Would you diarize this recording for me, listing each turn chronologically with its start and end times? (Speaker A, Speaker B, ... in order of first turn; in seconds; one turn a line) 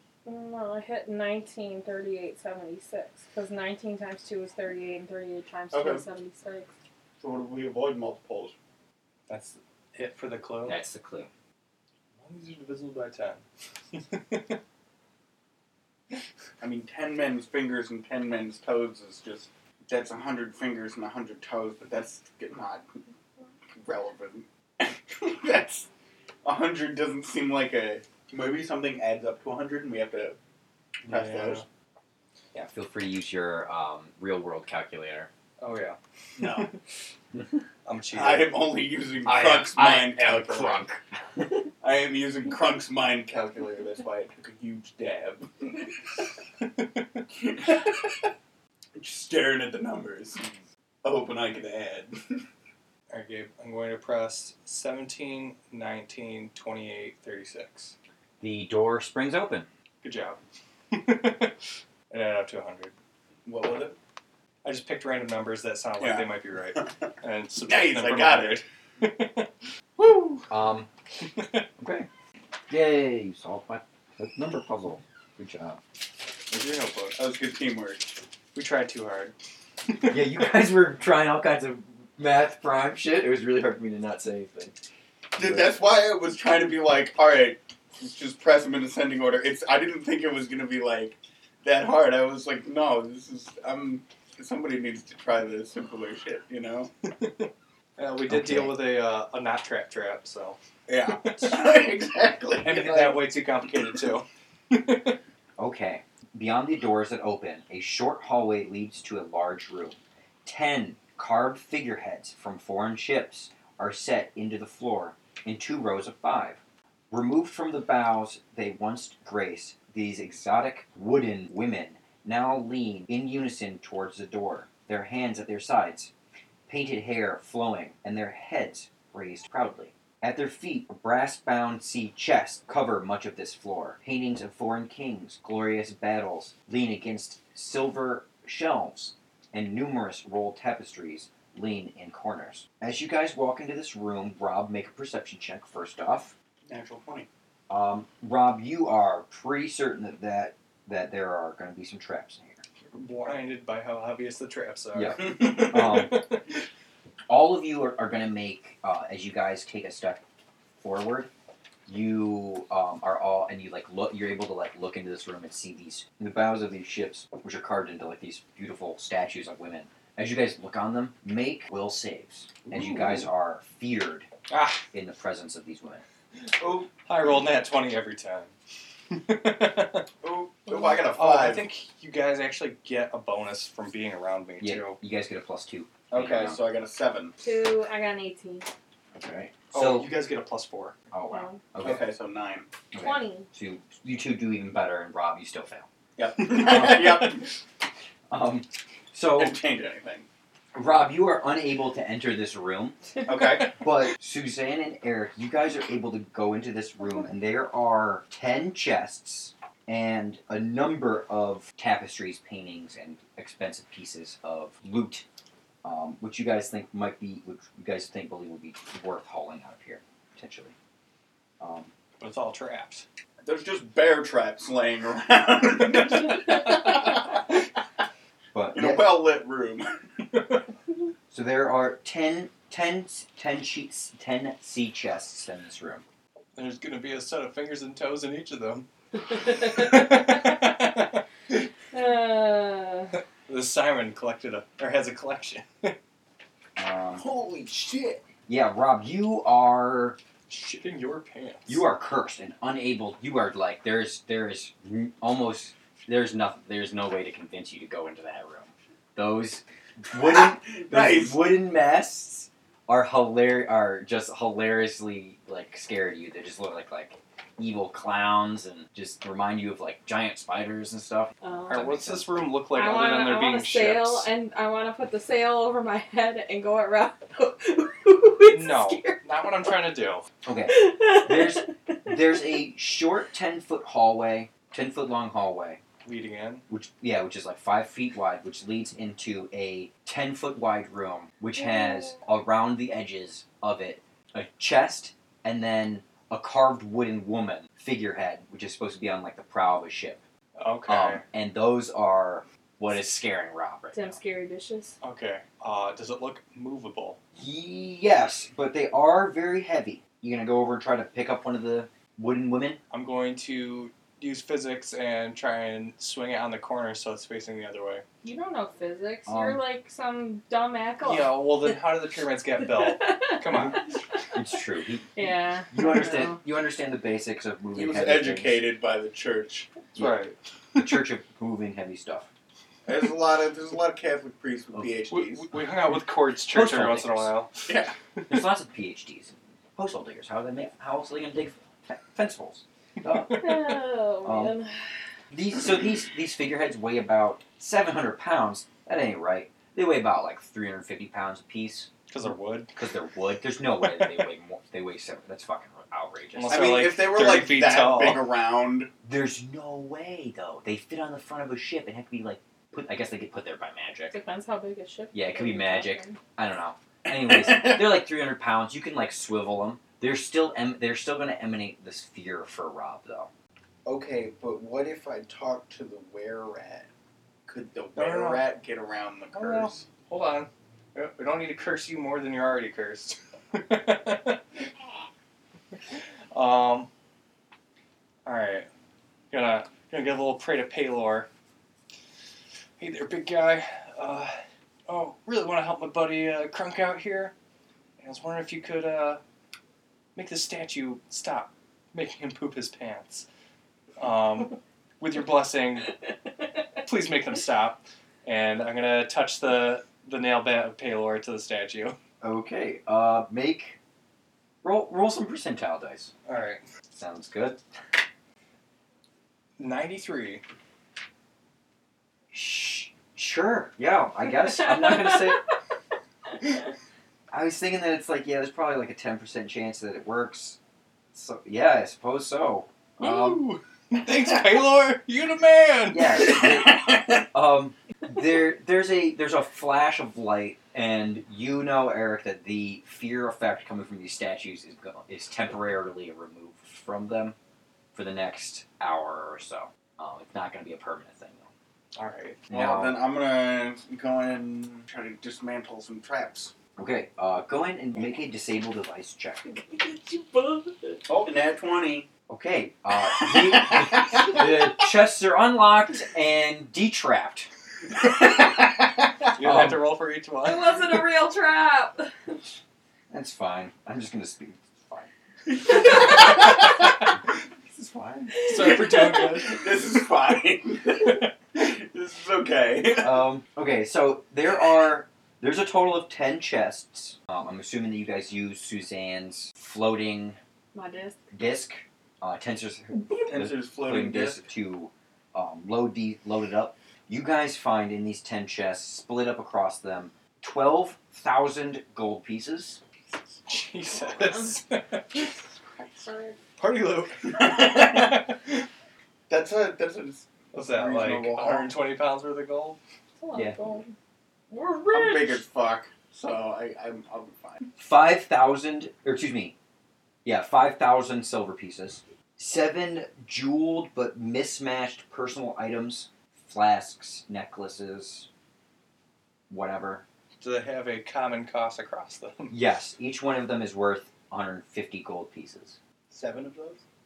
Speaker A: 0.2-6.7
Speaker B: 5.7-6.0
Speaker B: 7.2-8.5
Speaker C: 9.3-10.8
Speaker D: 10.7-11.3
Speaker C: 12.2-13.4
Speaker C: 13.9-14.6
Speaker B: 16.6-22.8
Speaker B: 23.7-25.9
Speaker B: 26.4-30.4
Speaker B: 31.0-31.6
Speaker C: 31.1-31.6
Speaker D: 32.5-35.3
Speaker C: 35.6-36.7
Speaker B: 36.4-36.7
Speaker C: 37.8-38.5
Speaker B: 38.1-40.8
Speaker D: 39.2-41.5
Speaker B: 41.8-45.9
Speaker B: 47.3-48.1
Speaker B: 49.0-50.4
Speaker B: 51.0-52.4
Speaker C: 53.1-57.9
Speaker D: 58.4-59.7
Speaker C: 60.0-60.4
Speaker C: 60.9-61.6
Speaker C: 62.1-62.9
Speaker B: 63.5-64.0
Speaker C: 64.6-70.5
Speaker B: 66.0-66.9
Speaker B: 67.6-68.6
Speaker D: 70.5-70.9
Speaker C: 71.2-71.7
Speaker D: 71.8-72.1
Speaker D: 72.7-75.8
Speaker C: 76.5-77.2
Speaker B: 77.2-78.1
Speaker C: 78.5-79.3
Speaker D: 80.1-84.8
Speaker B: 85.3-96.9
Speaker D: 85.4-85.7
Speaker C: 97.2-101.7
Speaker D: 98.3-98.8
Speaker B: 100.9-103.2
Speaker C: 102.6-105.2
Speaker D: 105.6-116.6
Speaker D: 117.1-126.1
Speaker D: 126.7-146.3
Speaker B: 146.7-147.3
Speaker D: 147.7-152.6
Speaker C: 152.9-156.1
Speaker D: 154.9-156.3
Speaker D: 157.3-160.2
Speaker D: 160.8-161.3
Speaker D: 161.8-174.3
Speaker C: 172.7-173.2
Speaker C: 174.5-174.8
Speaker D: 174.9-176.0
Speaker B: 176.6-176.9
Speaker C: 177.0-178.5
Speaker C: 179.1-180.1
Speaker B: 180.2-181.7
Speaker C: 181.0-185.0
Speaker D: 184.6-186.6
Speaker B: 186.1-187.3
Speaker A: 187.4-188.7
Speaker D: 189.1-190.1
Speaker C: 189.7-190.9
Speaker D: 191.1-192.1
Speaker A: 191.3-191.6
Speaker B: 191.8-192.7
Speaker D: 192.9-195.9
Speaker A: 193.0-193.5
Speaker B: 196.2-197.5
Speaker D: 196.5-197.4
Speaker D: 198.3-199.6
Speaker B: 199.3-200.3
Speaker D: 200.7-203.0
Speaker B: 203.2-203.8
Speaker D: 203.8-215.2
Speaker D: 215.8-220.7
Speaker D: 221.6-221.9
Speaker C: 222.2-223.0
Speaker B: 223.4-227.6
Speaker D: 228.5-229.2
Speaker B: 228.7-230.0
Speaker D: 231.3-236.0
Speaker C: 236.5-241.7
Speaker A: 241.9-243.1
Speaker C: 243.4-245.9
Speaker D: 246.8-247.2
Speaker B: 247.2-248.2
Speaker D: 248.5-250.2
Speaker C: 250.5-251.8
Speaker D: 251.7-272.4
Speaker B: 260.1-261.5
Speaker A: 271.4-271.8
Speaker C: 271.7-274.3
Speaker A: 272.7-279.2
Speaker C: 278.4-280.2
Speaker D: 280.4-285.8
Speaker A: 280.7-282.4
Speaker C: 286.0-286.6
Speaker D: 286.7-300.2
Speaker A: 291.6-291.9
Speaker C: 300.6-301.2
Speaker D: 300.9-304.2
Speaker A: 303.9-304.9
Speaker C: 305.0-307.2
Speaker D: 307.4-312.8
Speaker C: 312.9-318.0
Speaker A: 318.2-321.4
Speaker D: 319.2-319.6
Speaker C: 321.0-323.9
Speaker A: 322.6-323.7
Speaker D: 324.3-325.1
Speaker A: 325.1-326.4
Speaker D: 325.7-328.7
Speaker B: 327.7-329.7
Speaker D: 329.9-330.2
Speaker C: 330.0-330.8
Speaker D: 330.7-332.3
Speaker B: 332.9-335.4
Speaker C: 335.1-338.4
Speaker D: 336.5-337.3
Speaker B: 337.7-337.9
Speaker D: 338.3-344.5
Speaker A: 343.3-344.9
Speaker D: 345.3-351.9
Speaker C: 352.1-352.7
Speaker D: 352.8-356.8
Speaker C: 356.4-358.3
Speaker B: 356.5-358.9
Speaker D: 359.0-364.1
Speaker A: 364.1-366.2
Speaker D: 365.1-373.3
Speaker B: 373.8-376.9
Speaker B: 377.4-379.8
Speaker C: 377.9-378.4
Speaker C: 379.3-384.4
Speaker C: 386.3-386.9
Speaker C: 388.2-388.7
Speaker C: 389.3-391.3
Speaker C: 392.8-394.4
Speaker C: 394.9-397.3
Speaker C: 398.0-399.2
Speaker C: 400.1-403.2
Speaker C: 404.0-405.9
Speaker C: 406.8-411.9
Speaker D: 412.2-413.8
Speaker D: 414.6-416.1
Speaker C: 416.2-416.6
Speaker D: 416.9-417.6
Speaker C: 419.6-420.4
Speaker D: 422.3-425.5
Speaker D: 427.3-430.6
Speaker D: 431.1-433.5
Speaker C: 433.0-436.3
Speaker D: 435.9-447.4
Speaker D: 447.9-451.5
Speaker C: 451.9-452.4
Speaker D: 452.5-453.0
Speaker B: 452.5-456.5
Speaker D: 456.8-459.5
Speaker A: 459.6-461.0
Speaker B: 461.1-462.1
Speaker D: 462.3-467.5
Speaker C: 469.3-470.9
Speaker D: 469.4-469.8
Speaker A: 470.4-472.4
Speaker D: 473.1-475.1
Speaker A: 475.8-476.3
Speaker D: 477.7-478.4
Speaker A: 478.4-479.4
Speaker C: 478.4-479.7
Speaker B: 479.4-483.3
Speaker D: 482.9-490.4
Speaker A: 490.7-491.2
Speaker D: 491.3-502.8
Speaker B: 493.1-494.4
Speaker C: 503.5-505.3
Speaker B: 505.8-506.0
Speaker A: 506.0-506.4
Speaker C: 506.6-508.6
Speaker B: 507.4-508.0
Speaker B: 509.3-511.7
Speaker C: 510.5-512.8
Speaker A: 513.2-513.9
Speaker A: 514.5-515.4
Speaker B: 514.9-517.6
Speaker D: 517.8-519.5
Speaker D: 520.2-528.3
Speaker D: 529.5-530.0
Speaker C: 530.4-532.5
Speaker D: 532.5-535.8
Speaker B: 536.1-536.8